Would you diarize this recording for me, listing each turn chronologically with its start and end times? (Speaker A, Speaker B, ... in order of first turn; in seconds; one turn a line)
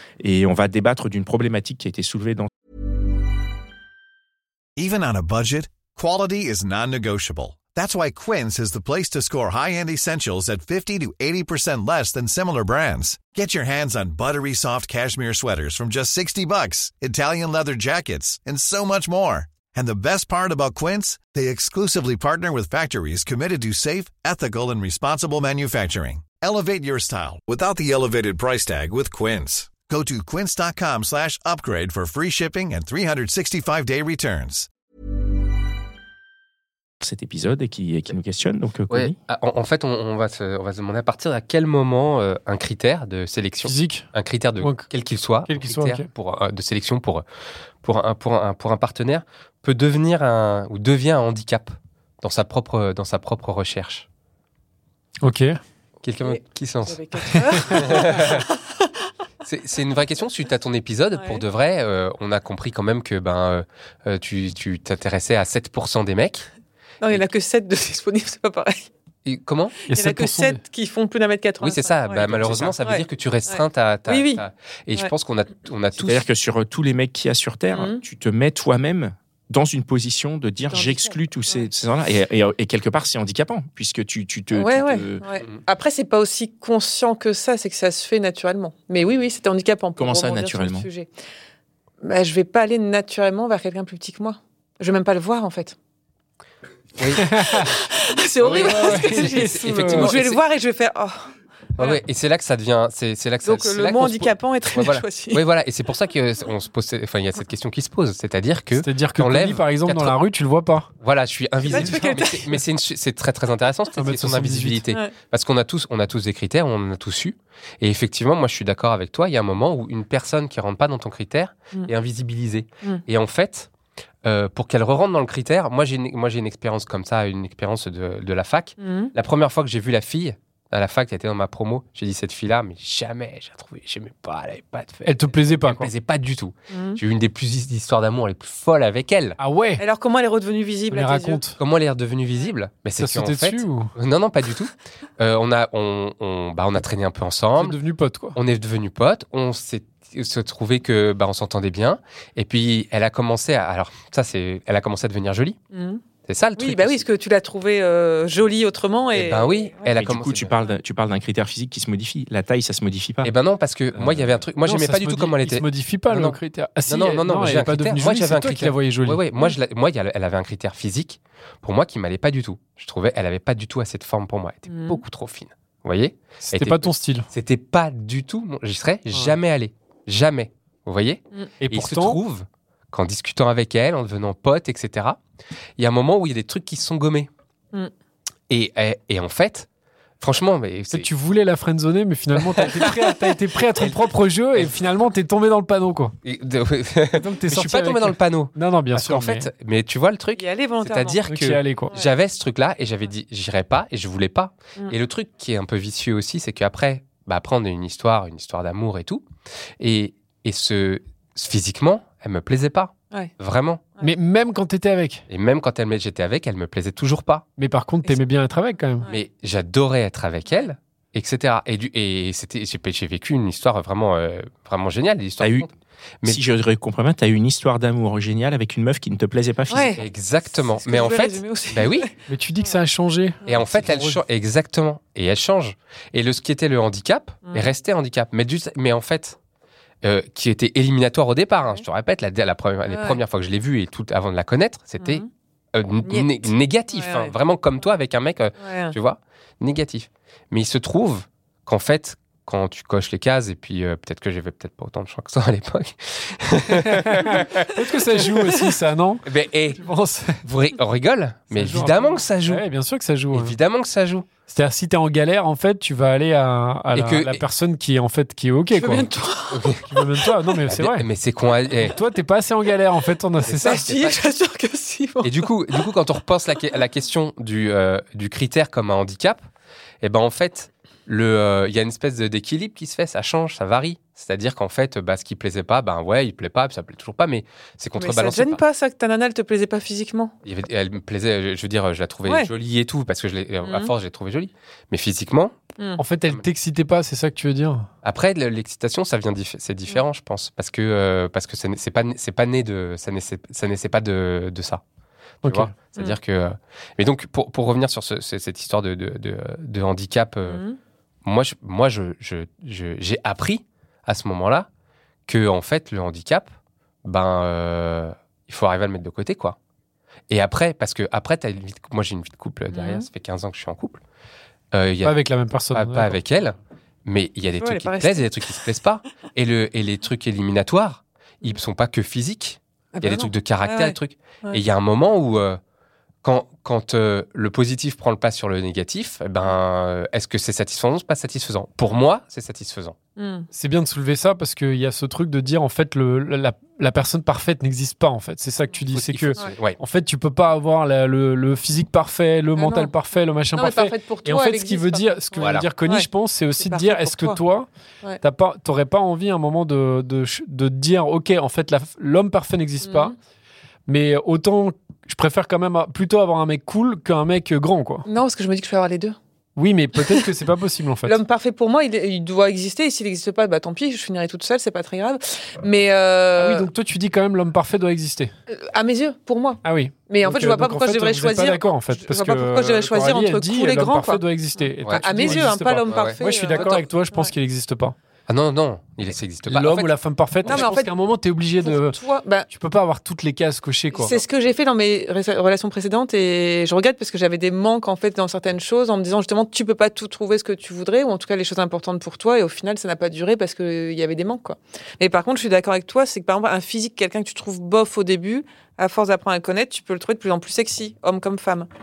Speaker A: 0.2-2.5
Speaker B: 4.8-34.7
Speaker A: 37.0-39.1
Speaker C: 38.9-47.2
Speaker D: 43.6-44.9
Speaker D: 45.5-46.1
Speaker C: 47.8-54.1
Speaker D: 55.2-55.6
Speaker C: 56.0-57.0
Speaker E: 56.2-59.1
Speaker C: 57.7-58.5
Speaker C: 59.5-66.5
Speaker E: 61.1-61.4
Speaker E: 67.0-68.9
Speaker C: 69.2-69.8
Speaker D: 69.9-70.6
Speaker E: 69.9-74.4
Speaker C: 71.6-76.3
Speaker A: 72.4-72.8
Speaker A: 76.0-85.2
Speaker E: 77.7-78.0
Speaker E: 80.7-81.7
Speaker E: 84.5-91.1
Speaker A: 90.0-90.9
Speaker E: 92.0-95.8
Speaker C: 97.0-97.7
Speaker D: 97.2-97.7
Speaker E: 97.5-101.3
Speaker C: 98.4-100.4
Speaker D: 98.5-100.1
Speaker C: 101.8-110.2
Speaker E: 103.5-105.4
Speaker D: 108.7-110.9
Speaker C: 111.0-123.7
Speaker E: 111.6-112.5
Speaker D: 111.7-112.1
Speaker D: 114.0-114.8
Speaker C: 124.2-139.4
Speaker E: 128.8-129.1
Speaker D: 135.0-135.9
Speaker E: 136.7-137.0
Speaker D: 139.4-139.8
Speaker E: 139.8-141.4
Speaker D: 140.9-141.6
Speaker C: 141.6-147.8
Speaker D: 143.0-143.9
Speaker D: 147.6-148.4
Speaker C: 148.3-155.6
Speaker E: 155.7-156.0
Speaker C: 156.2-157.1
Speaker E: 156.6-159.9
Speaker C: 159.1-160.5
Speaker A: 160.0-163.3
Speaker C: 163.2-185.2
Speaker A: 164.0-164.3
Speaker D: 164.6-169.2
Speaker E: 174.7-175.0
Speaker D: 176.4-177.3
Speaker D: 179.1-179.4
Speaker D: 181.6-182.2
Speaker C: 185.8-187.3
Speaker C: 188.5-189.7
Speaker C: 190.2-191.1
Speaker D: 190.9-196.2
Speaker C: 192.4-193.1
Speaker C: 193.8-194.8
Speaker C: 196.2-209.2
Speaker D: 197.1-199.5
Speaker E: 200.4-201.2
Speaker D: 201.3-202.0
Speaker C: 209.8-213.8
Speaker D: 214.0-215.2
Speaker C: 215.3-217.5
Speaker D: 217.6-219.1
Speaker C: 219.1-226.4
Speaker A: 225.4-225.7
Speaker A: 226.2-229.9
Speaker E: 229.7-232.7
Speaker C: 230.0-232.1
Speaker D: 232.3-234.2
Speaker C: 233.5-239.4
Speaker C: 240.0-245.2
Speaker E: 242.9-243.2
Speaker E: 245.0-245.3
Speaker C: 245.8-258.7
Speaker E: 246.0-247.4
Speaker E: 248.6-249.0
Speaker D: 256.7-260.4
Speaker C: 259.3-259.8
Speaker C: 260.4-262.6
Speaker D: 261.5-263.6
Speaker C: 263.3-264.3
Speaker D: 264.5-269.1
Speaker C: 266.9-267.4
Speaker E: 268.7-270.3
Speaker C: 269.5-269.8
Speaker D: 269.9-271.1
Speaker C: 270.7-272.0
Speaker D: 271.8-274.0
Speaker C: 273.5-274.2
Speaker E: 273.6-275.4
Speaker C: 275.2-279.4
Speaker C: 280.0-288.6
Speaker E: 288.0-290.3
Speaker C: 290.4-295.6
Speaker E: 293.6-293.9
Speaker D: 296.0-297.9
Speaker C: 298.0-304.8
Speaker C: 305.4-310.6
Speaker D: 305.4-305.7
Speaker E: 310.4-310.8
Speaker C: 311.2-314.7
Speaker C: 315.3-316.5
Speaker C: 317.1-319.6
Speaker C: 320.3-324.0
Speaker E: 322.7-323.1
Speaker C: 324.7-325.2
Speaker D: 325.0-326.2
Speaker C: 325.7-335.6
Speaker E: 327.6-328.5
Speaker E: 332.9-334.6
Speaker C: 336.2-343.0
Speaker E: 343.2-343.5
Speaker D: 343.5-357.7
Speaker C: 348.9-349.8
Speaker E: 352.6-352.9
Speaker E: 353.5-357.4
Speaker C: 355.4-355.7
Speaker D: 358.2-363.1
Speaker E: 362.8-363.1
Speaker D: 363.9-368.1
Speaker E: 368.1-369.2
Speaker D: 369.6-371.2
Speaker E: 371.0-376.7
Speaker D: 376.4-378.3
Speaker E: 378.5-387.3
Speaker D: 379.6-388.0
Speaker C: 384.8-386.8
Speaker C: 388.3-390.7
Speaker D: 389.4-394.2
Speaker E: 390.4-391.0
Speaker E: 391.6-392.5
Speaker E: 393.9-411.7